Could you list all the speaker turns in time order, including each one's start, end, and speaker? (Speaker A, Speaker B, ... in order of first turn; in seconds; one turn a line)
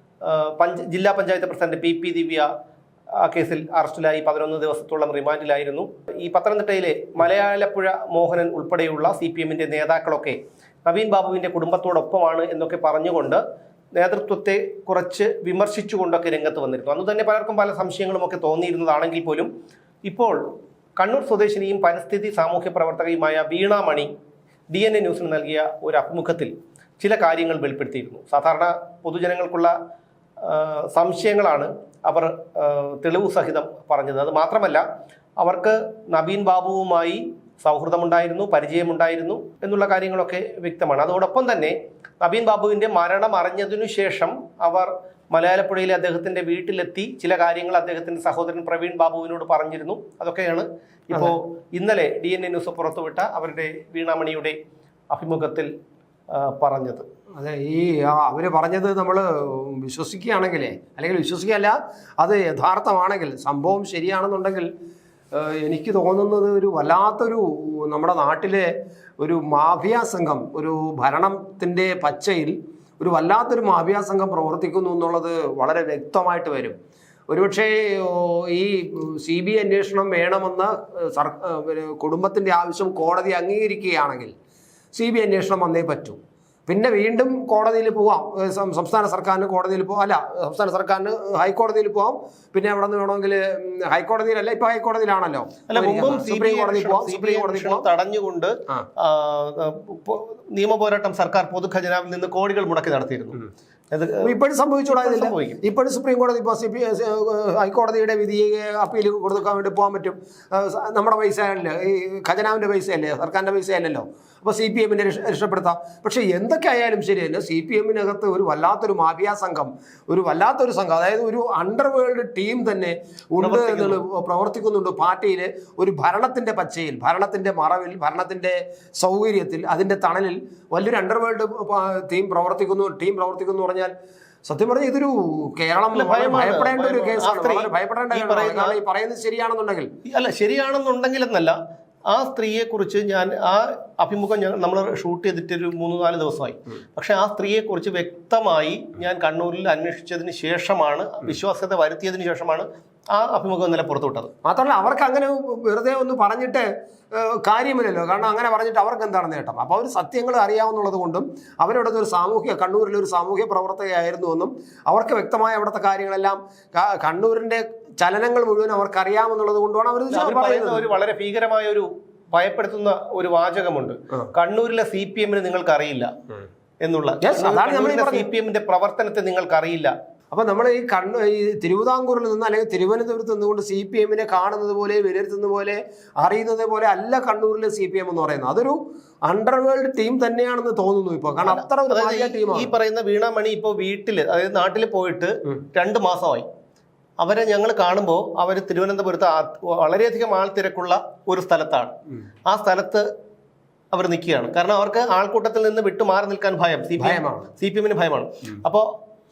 Speaker A: 0.2-2.5
Speaker A: 3.2-13.4
Speaker A: 14.0-19.5
Speaker A: 20.0-20.4
Speaker A: 21.0-24.1
Speaker A: 24.7-29.7
Speaker A: 30.4-34.8
Speaker A: 35.4-54.5
Speaker A: 55.1-55.7
Speaker A: 56.3-57.0
Speaker B: 57.4-64.7
Speaker B: 65.3-76.8
Speaker B: 77.3-84.3
Speaker B: 84.9-97.9
Speaker A: 95.7-103.4
Speaker A: 103.9-104.3
Speaker B: 104.2-133.9
Speaker A: 104.9-105.6
Speaker A: 123.4-124.0
Speaker B: 134.5-139.9
Speaker A: 135.9-138.8
Speaker A: 140.1-141.6
Speaker A: 142.1-154.3
Speaker B: 154.4-170.9
Speaker A: 170.1-176.1
Speaker A: 176.8-179.9
Speaker B: 177.2-178.3
Speaker B: 180.3-192.7
Speaker A: 191.4-196.5
Speaker A: 197.2-201.9
Speaker A: 202.5-203.0
Speaker A: 203.9-208.9
Speaker B: 207.0-207.5